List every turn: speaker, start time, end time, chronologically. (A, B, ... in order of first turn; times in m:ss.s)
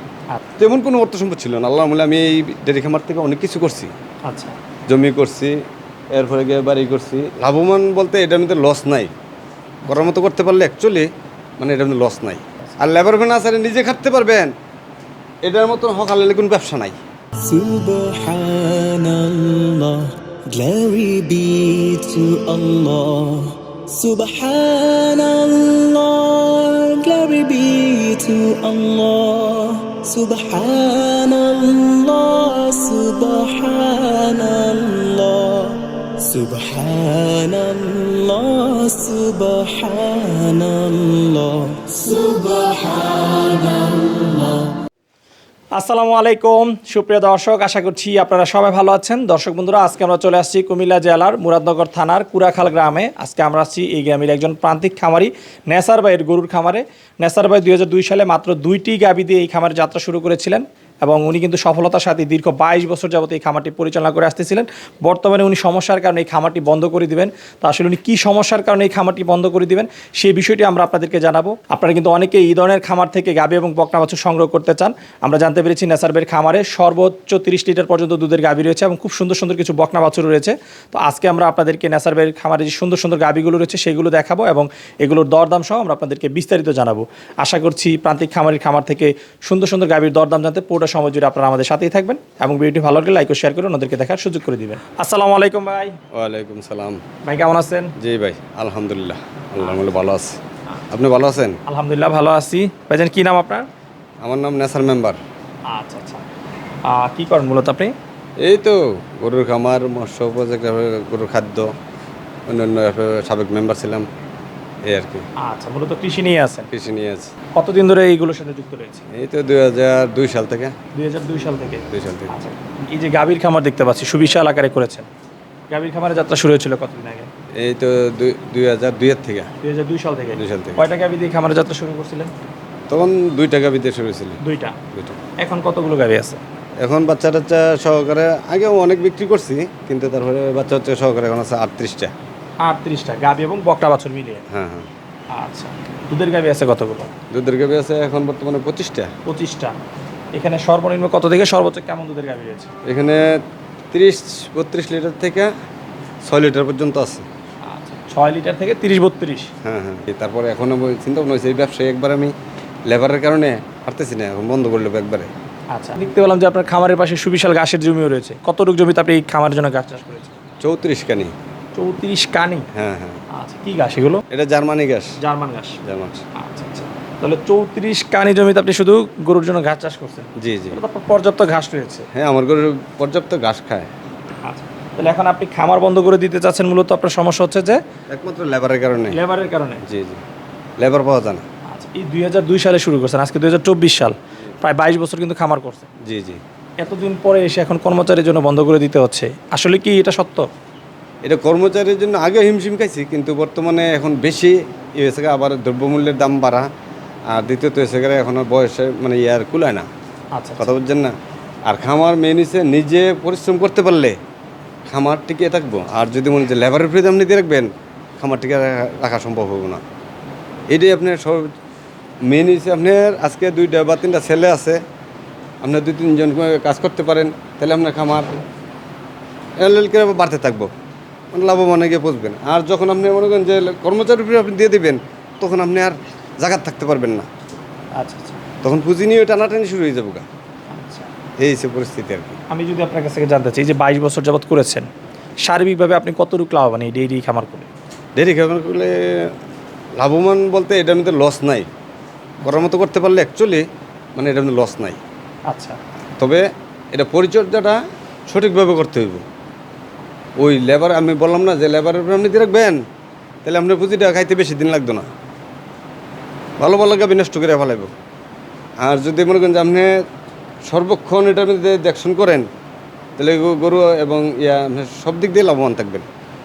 0:00.6-0:03.9 A
0:04.2-0:04.6 B
0:04.9-0:05.6 A
0:06.1-0:09.1 A
0:09.9-0:11.1 A
0:11.6-0:14.5 A
0:15.4-0:17.0 A
0:17.4-0:44.8 C
0:45.7-1:36.0 B
1:36.1-1:37.0 A
1:37.2-1:37.9 B
1:38.0-1:40.4 A
1:39.6-1:39.9 B
1:40.9-1:41.6 A
1:41.6-1:43.7 B
1:44.2-1:45.2 A
1:45.7-1:46.2 B
1:46.9-1:47.9 B
1:48.4-1:51.7 A
1:52.5-1:54.0 A
1:54.8-1:55.2 A
1:55.4-1:56.7 B
1:56.7-1:57.3 A
1:57.6-1:59.0 B
1:59.1-2:00.7 A
2:00.9-2:05.1 B
2:01.9-2:02.3 A
2:05.7-2:07.3 B
2:07.6-2:09.5 A
2:09.6-2:12.3 B
2:10.4-2:10.8 A
2:12.9-2:14.4 A
2:14.4-2:14.8 B
2:14.9-2:15.2 A
2:15.4-2:16.4 B
2:16.8-2:22.1 A
2:22.6-2:24.4 B
2:24.5-2:24.9 A
2:25.3-2:27.1 B
2:27.3-2:29.1 A
2:29.2-2:29.8 B
2:30.3-2:32.7 B
2:32.8-2:33.4 A
2:33.9-2:35.5 A
2:36.3-2:37.2 A
2:37.6-2:39.5 B
2:39.6-2:42.3 A
2:42.9-2:45.3 A
2:45.7-2:50.3 B
2:50.6-2:51.3 A
2:51.7-2:52.7 B
2:52.7-2:53.2 A
2:53.3-2:54.2 B
2:54.3-2:55.1 A
2:55.2-2:55.8 B
2:55.8-2:56.2 A
2:56.4-3:02.1 B
3:00.4-3:00.8 A
3:02.1-3:03.9 A
3:04.4-3:07.8 B
3:08.1-3:09.2 A
3:09.1-3:09.8 B
3:09.8-3:10.2 A
3:10.8-3:11.4 A
3:11.7-3:15.9 B
3:16.0-3:16.4 A
3:16.8-3:20.5 B
3:21.2-3:26.7 A
3:27.3-3:29.9 A
3:30.4-3:30.7 B
3:30.6-3:31.1 A
3:31.7-3:34.2 A
3:34.9-3:39.8 A
3:40.7-3:41.5 A
3:42.3-3:44.8 A
3:45.6-3:48.4 A
3:49.6-3:50.7 A
3:51.3-3:57.3 A
3:58.0-3:58.4 B
3:58.6-4:00.2 A
4:00.7-4:01.1 B
4:01.4-4:02.4 A
4:02.5-4:04.9 B
4:05.4-4:07.7 B
4:08.2-4:09.3 A
4:10.0-4:11.7 A
4:12.4-4:15.0 A
4:15.5-4:15.8 B
4:16.2-4:19.2 A
4:20.4-4:22.8 A
4:23.4-4:25.1 A
4:26.6-4:27.9 A
4:28.8-4:29.9 A
4:30.7-4:32.5 A
4:33.2-4:36.1 A